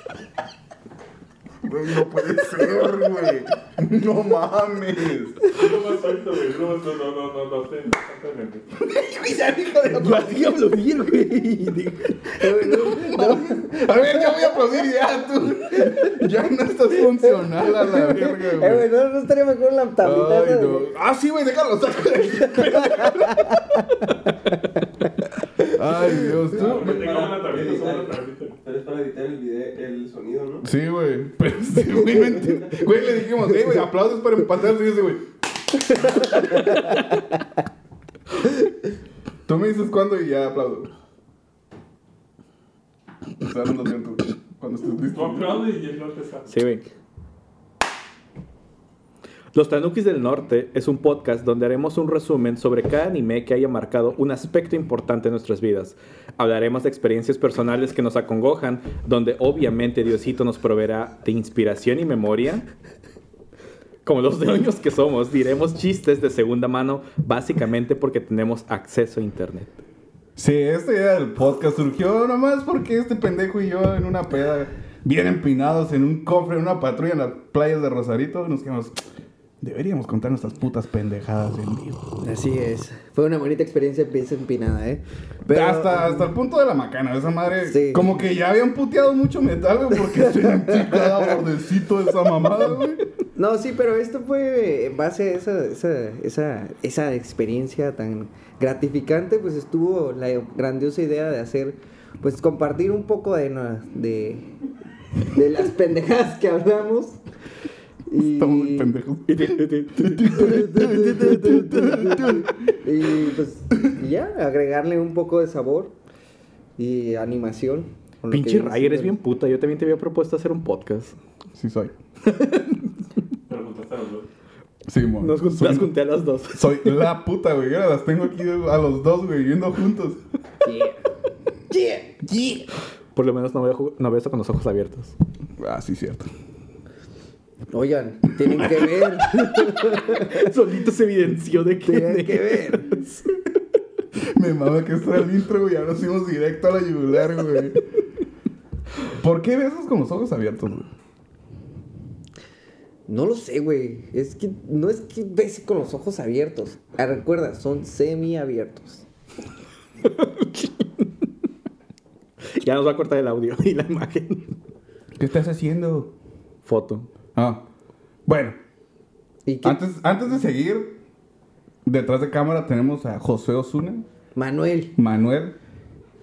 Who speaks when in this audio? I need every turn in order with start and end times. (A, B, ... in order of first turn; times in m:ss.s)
0:01.6-0:05.6 A
0:05.5-0:08.8 B
0:08.9-0:10.3 A
0:09.9-0:12.4 C
0:12.3-0:14.8 D
0:12.7-0:18.8 A
0:15.7-0:16.2 D
0:16.9-0:20.9 D
0:20.0-0:23.6 A
0:22.5-0:23.8 D
0:25.7-0:26.4 D
0:25.7-0:27.0 A
0:26.5-0:30.6 E
0:26.7-0:28.6 B
0:30.6-0:35.2 A
0:31.9-0:32.5 D
0:36.3-0:37.0 D
0:36.6-0:37.0 C
0:39.5-0:40.9 A
0:43.4-0:45.7 A
0:45.0-0:46.5 B
0:46.5-0:46.8 C
0:49.5-1:02.7 C
1:04.0-1:09.7 C
1:10.4-1:19.0 A
1:19.6-1:22.0 A
1:22.2-1:26.3 D
1:25.5-1:33.0 A
1:27.6-1:28.1 D
1:30.1-1:31.4 D
1:33.3-1:44.5 D
1:45.3-1:47.2 D
1:48.1-1:48.9 D
1:48.2-1:52.5 A
1:49.3-1:50.5 C
1:50.3-1:55.9 D
1:56.8-1:59.2 D
1:58.3-2:01.2 C
2:01.5-2:02.0 A
2:02.2-2:03.0 C
2:03.5-2:04.3 B
2:04.9-2:05.9 A
2:05.2-2:07.1 C
2:06.5-2:10.2 A
2:10.6-2:11.0 D
2:11.7-2:12.0 D
2:12.2-2:12.7 A
2:13.1-2:15.1 C
2:15.6-2:16.3 A
2:17.7-2:20.3 D
2:19.2-2:23.2 C
2:21.8-2:23.0 D
2:24.2-2:27.8 A
2:29.1-2:30.9 A
2:33.1-2:39.0 D
2:40.0-2:41.1 C
2:42.6-2:44.5 C
2:45.2-2:46.1 A
2:46.6-2:47.1 C
2:47.3-2:47.6 A
2:48.2-2:48.6 A
2:49.4-2:49.8 D
2:49.6-2:51.0 A
2:51.8-2:54.0 A
2:54.3-2:55.0 D
2:55.0-2:55.6 A